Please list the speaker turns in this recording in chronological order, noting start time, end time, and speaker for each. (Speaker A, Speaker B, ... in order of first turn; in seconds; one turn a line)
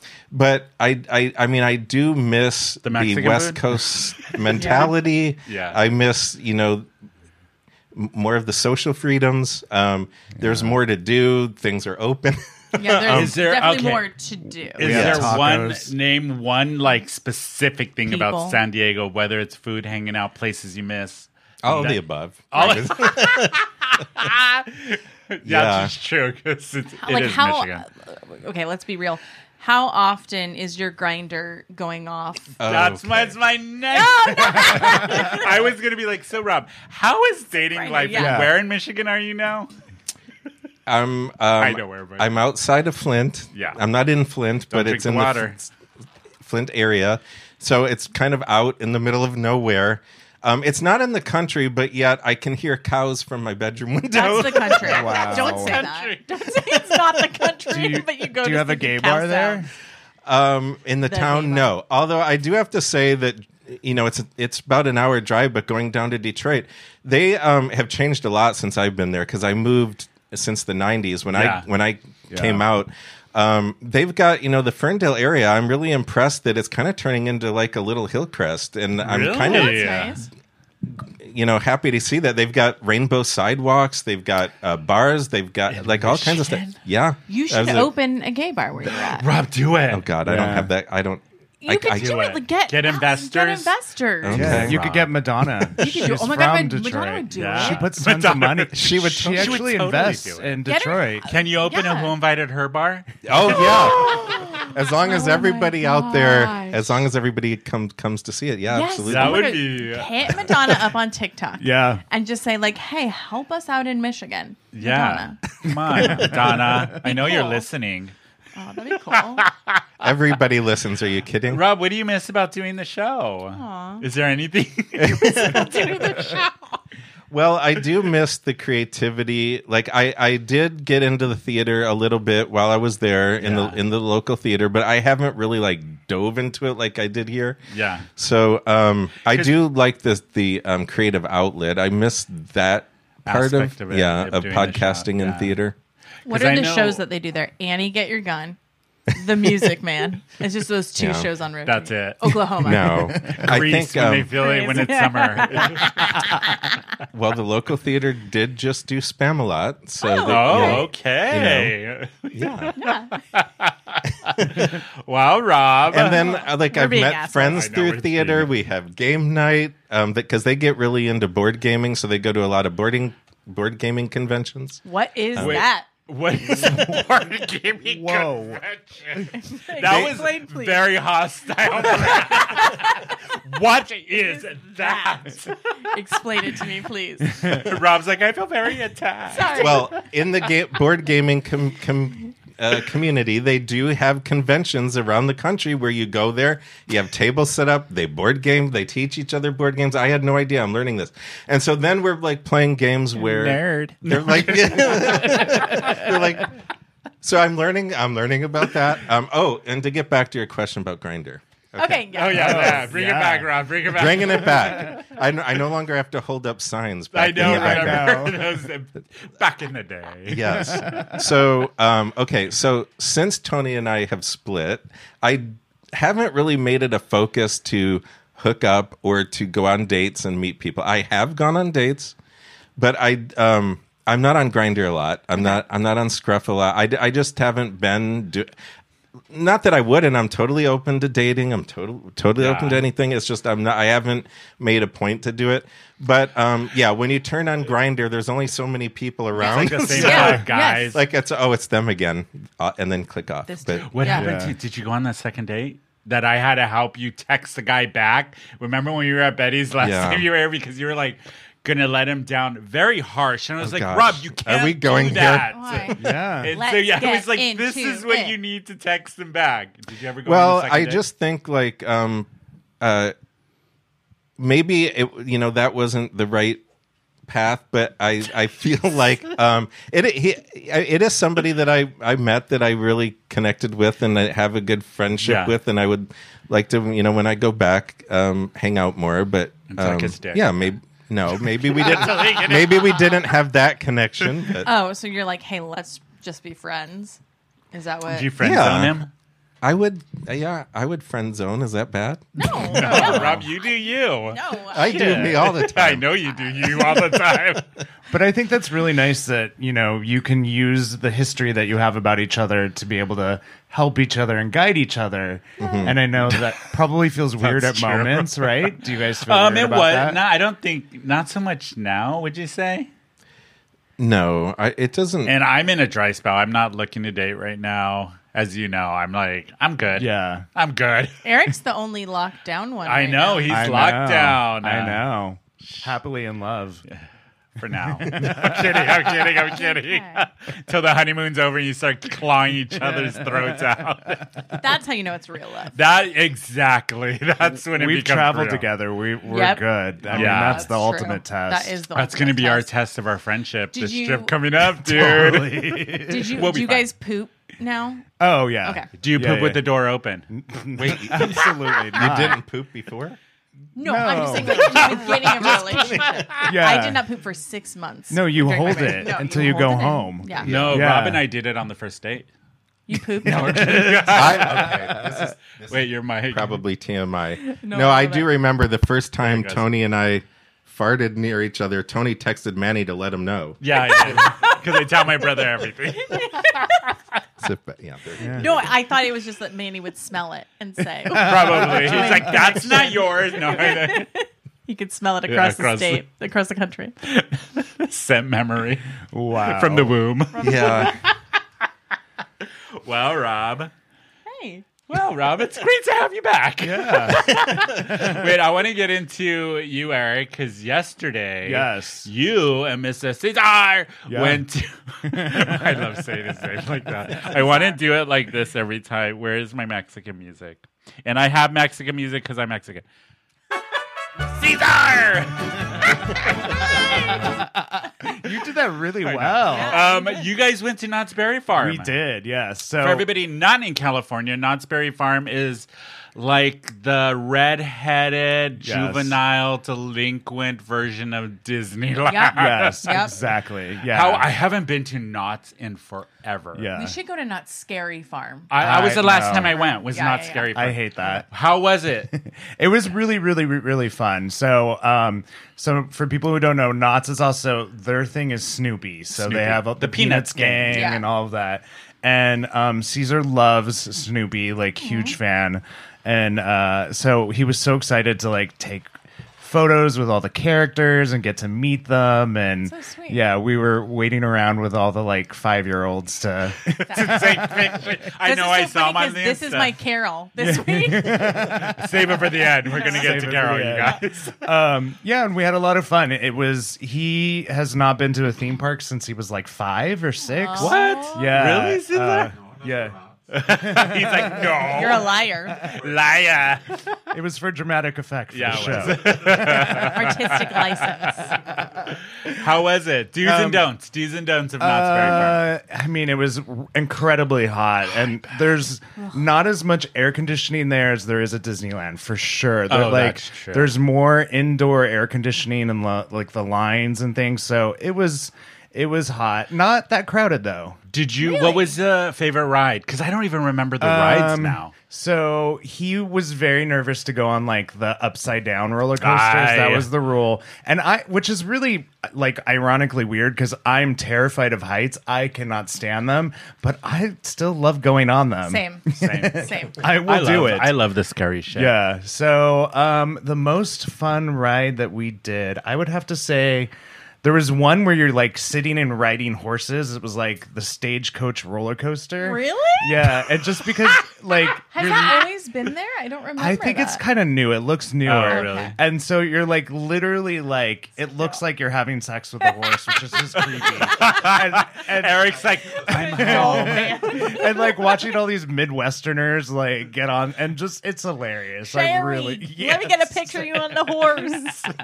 Speaker A: 0.3-6.9
Speaker B: 2.8-4.5
Speaker C: 4.6-4.9
Speaker B: 5.5-5.8
Speaker A: 7.9-13.4
Speaker D: 10.4-10.7
Speaker C: 12.7-14.9
Speaker B: 13.1-14.1
Speaker B: 14.8-22.0
Speaker D: 14.8-15.9
Speaker A: 14.8-15.4
Speaker C: 18.1-18.6
Speaker A: 21.6-23.6
Speaker B: 22.5-27.9
Speaker A: 25.4-25.9
Speaker C: 27.0-32.5
Speaker A: 32.6-33.4
Speaker B: 32.6-39.7
Speaker C: 33.9-35.6
Speaker C: 37.7-38.5
Speaker D: 38.1-38.5
Speaker A: 40.9-45.7
Speaker B: 41.6-42.4
Speaker B: 43.5-43.8
Speaker B: 44.7-45.6
Speaker A: 46.4-55.5
Speaker C: 54.1-59.7
Speaker D: 54.8-55.9
Speaker B: 54.8-57.1
Speaker D: 57.7-59.7
Speaker A: 60.3-80.1
Speaker C: 61.1-61.7
Speaker B: 71.3-71.7
Speaker D: 72.3-72.6
Speaker B: 79.0-80.2
Speaker C: 79.4-80.3
Speaker A: 80.8-87.9
Speaker B: 85.7-86.8
Speaker C: 87.3-89.3
Speaker B: 88.9-90.1
Speaker A: 89.9-92.2
Speaker D: 90.2-90.7
Speaker C: 91.6-94.6
Speaker B: 92.0-93.7
Speaker A: 94.2-95.1
Speaker D: 94.3-101.3
Speaker B: 94.5-94.8
Speaker C: 95.8-97.9
Speaker B: 97.3-100.6
Speaker A: 98.7-99.9
Speaker C: 100.7-102.2
Speaker B: 101.3-104.7
Speaker A: 103.2-109.5
Speaker C: 103.5-106.9
Speaker C: 108.7-115.4
Speaker B: 109.0-110.1
Speaker D: 111.6-112.0
Speaker B: 114.7-118.1
Speaker D: 115.7-117.0
Speaker C: 117.0-117.7
Speaker C: 118.6-119.5
Speaker B: 119.1-120.1
Speaker A: 120.0-121.6
Speaker B: 121.5-126.5
Speaker C: 123.5-124.0
Speaker A: 125.0-125.8
Speaker C: 125.4-126.4
Speaker A: 127.3-137.6
Speaker B: 133.4-133.8
Speaker B: 137.7-138.1
Speaker A: 138.2-145.8
Speaker B: 139.3-139.6
Speaker B: 143.3-145.6
Speaker B: 146.3-147.0
Speaker C: 146.3-148.6
Speaker C: 149.1-153.0
Speaker A: 151.0-151.3
Speaker B: 151.7-152.5
Speaker A: 152.6-154.4
Speaker D: 152.9-153.4
Speaker B: 153.2-156.3
Speaker C: 154.4-156.6
Speaker A: 157.1-161.7
Speaker C: 160.0-160.8
Speaker B: 160.2-166.3
Speaker A: 162.3-162.8
Speaker C: 162.8-163.1
Speaker A: 164.4-164.7
Speaker A: 165.9-174.8
Speaker C: 166.0-167.6
Speaker B: 167.4-168.5
Speaker C: 174.8-175.9
Speaker A: 175.3-175.6
Speaker B: 175.4-185.9
Speaker D: 176.5-177.0
Speaker D: 177.8-178.6
Speaker C: 179.3-180.9
Speaker A: 179.8-180.1
Speaker C: 182.1-183.0
Speaker C: 184.8-185.3
Speaker C: 185.9-187.4
Speaker D: 187.3-187.7
Speaker B: 187.4-189.9
Speaker C: 189.3-189.9
Speaker A: 189.5-206.5
Speaker B: 203.2-206.4
Speaker A: 207.2-212.9
Speaker C: 211.8-212.7
Speaker B: 212.1-215.0
Speaker D: 212.3-213.5
Speaker A: 213.9-218.4
Speaker B: 217.1-220.8
Speaker D: 217.4-218.4
Speaker A: 220.3-232.2
Speaker D: 220.6-221.1
Speaker A: 232.8-238.5
Speaker A: 239.3-254.2
Speaker B: 242.4-242.8
Speaker C: 249.3-251.0
Speaker B: 249.4-251.0
Speaker C: 253.5-254.3
Speaker B: 253.9-271.0
Speaker D: 254.1-254.5
Speaker A: 259.8-260.3
Speaker A: 263.6-265.6
Speaker C: 265.2-266.0
Speaker D: 266.0-266.6
Speaker C: 266.5-268.4
Speaker A: 270.2-272.3
Speaker A: 272.8-273.1
Speaker A: 274.4-276.6
Speaker A: 277.3-294.7
Speaker B: 285.2-285.6
Speaker B: 289.7-290.7
Speaker B: 291.7-293.2
Speaker C: 294.6-297.2
Speaker C: 297.7-298.3
Speaker B: 298.1-299.1
Speaker A: 298.4-299.0
Speaker A: 299.6-303.4
Speaker C: 302.4-305.5
Speaker B: 302.6-307.7
Speaker A: 304.7-306.1
Speaker C: 306.2-307.2
Speaker D: 308.1-320.2
Speaker C: 315.6-315.9
Speaker A: 315.6-316.0
Speaker B: 316.2-316.6
Speaker B: 317.4-322.9
Speaker A: 324.0-325.3
Speaker B: 325.3-331.2
Speaker D: 330.0-330.4
Speaker C: 331.2-333.7
Speaker B: 332.9-335.0
Speaker D: 333.5-336.8
Speaker B: 335.6-335.9
Speaker B: 337.6-344.4
Speaker D: 337.9-339.1
Speaker C: 339.5-340.2
Speaker D: 342.9-343.5
Speaker C: 344.5-345.8
Speaker B: 345.8-348.7
Speaker D: 347.7-351.7
Speaker C: 349.3-352.7
Speaker B: 350.1-350.7
Speaker B: 351.9-356.9
Speaker C: 353.7-354.3
Speaker D: 354.7-356.5
Speaker C: 356.1-358.1
Speaker D: 358.2-359.7
Speaker C: 358.6-358.9
Speaker B: 359.0-362.1
Speaker D: 360.3-362.4
Speaker A: 360.9-361.3
Speaker A: 362.0-363.2
Speaker C: 363.8-370.5
Speaker D: 363.8-365.0
Speaker B: 364.4-366.5
Speaker A: 365.6-366.2
Speaker D: 366.4-367.0
Speaker D: 368.1-371.2
Speaker B: 370.4-372.3
Speaker A: 370.4-370.9
Speaker C: 372.9-373.8
Speaker D: 373.2-375.1
Speaker B: 373.2-376.6
Speaker A: 374.1-384.3
Speaker C: 377.4-378.3
Speaker B: 379.2-379.7
Speaker B: 383.6-386.6
Speaker C: 384.1-384.6
Speaker C: 386.0-386.9
Speaker A: 387.4-388.8
Speaker D: 388.2-388.4
Speaker C: 388.4-396.9
Speaker D: 391.1-392.6
Speaker B: 391.1-394.1
Speaker B: 395.3-396.0
Speaker B: 397.0-401.1
Speaker D: 399.1-400.0
Speaker C: 400.3-401.0
Speaker A: 400.4-401.0
Speaker B: 402.8-403.7
Speaker C: 404.3-404.7
Speaker B: 404.9-422.9
Speaker D: 406.6-408.3
Speaker D: 411.4-412.1
Speaker D: 414.1-414.4
Speaker D: 415.1-415.9
Speaker B: 424.2-427.2
Speaker D: 427.1-429.8
Speaker B: 429.0-431.9
Speaker C: 429.5-430.3
Speaker D: 431.5-433.1
Speaker B: 432.8-443.0
Speaker D: 438.6-439.2
Speaker C: 442.1-443.1
Speaker D: 442.4-444.3
Speaker B: 443.8-446.7
Speaker D: 446.6-447.0
Speaker C: 446.7-448.5
Speaker B: 448.5-452.1
Speaker D: 448.6-449.6
Speaker C: 449.5-450.5
Speaker D: 450.5-451.3
Speaker D: 452.1-468.9
Speaker B: 459.1-460.9
Speaker C: 460.7-461.1
Speaker C: 464.8-465.2
Speaker D: 469.4-477.9
Speaker C: 472.6-473.2
Speaker B: 476.8-479.8
Speaker C: 476.9-477.5
Speaker C: 478.2-481.5
Speaker D: 480.4-481.9
Speaker B: 481.4-484.4
Speaker C: 482.7-483.2
Speaker D: 482.8-493.0
Speaker C: 490.3-491.4
Speaker B: 490.6-492.4
Speaker B: 493.3-497.0
Speaker D: 493.6-494.6
Speaker C: 494.7-495.7
Speaker D: 497.1-500.3
Speaker B: 498.3-505.5
Speaker C: 499.7-501.4
Speaker D: 503.2-503.7
Speaker D: 504.6-520.8
Speaker B: 512.7-513.7
Speaker B: 520.9-524.7
Speaker C: 521.2-521.7
Speaker D: 523.8-540.8
Speaker B: 529.0-529.9
Speaker C: 538.5-538.9
Speaker B: 539.0-541.8
Speaker C: 539.4-539.8
Speaker D: 541.5-546.7
Speaker D: 547.2-555.3
Speaker C: 552.2-553.4
Speaker C: 554.6-557.0
Speaker D: 556.4-574.4
Speaker B: 558.0-558.8
Speaker C: 558.3-558.7
Speaker C: 562.4-564.2
Speaker B: 563.9-567.4
Speaker C: 565.7-567.9
Speaker C: 571.6-574.7